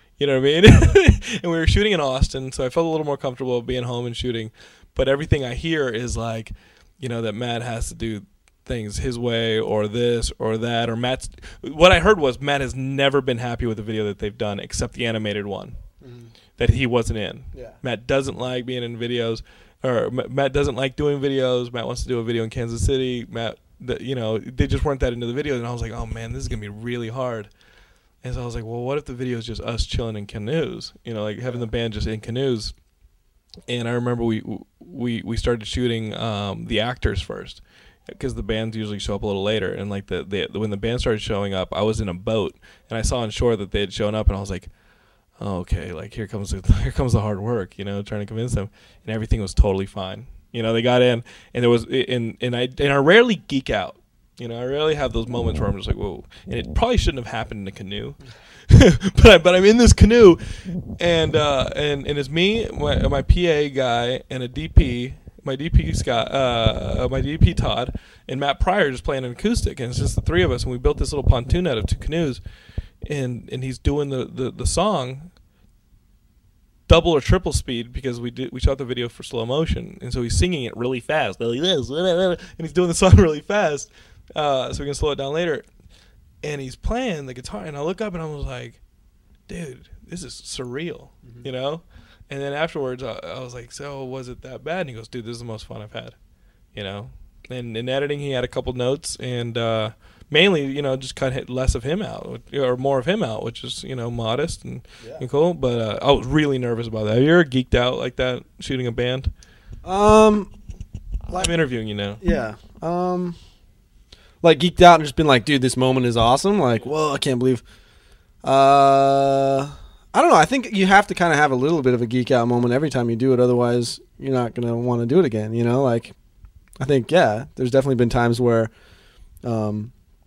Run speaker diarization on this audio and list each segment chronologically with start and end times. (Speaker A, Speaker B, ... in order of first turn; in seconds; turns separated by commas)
Speaker A: 0.2-15.8, Speaker B: 16.0-16.3, Speaker A: 16.6-27.5, Speaker A: 28.2-32.7, Speaker A: 33.7-44.7, Speaker A: 45.4-72.4, Speaker A: 73.0-75.3, Speaker A: 76.9-85.7, Speaker A: 86.4-88.8, Speaker A: 89.5-96.2, Speaker A: 96.7-109.3, Speaker B: 105.0-105.2, Speaker B: 109.8-110.5, Speaker B: 111.3-111.5, Speaker A: 111.3-112.2, Speaker B: 112.2-113.3, Speaker B: 114.4-117.6, Speaker B: 118.4-126.1, Speaker B: 126.8-128.7, Speaker B: 129.4-129.9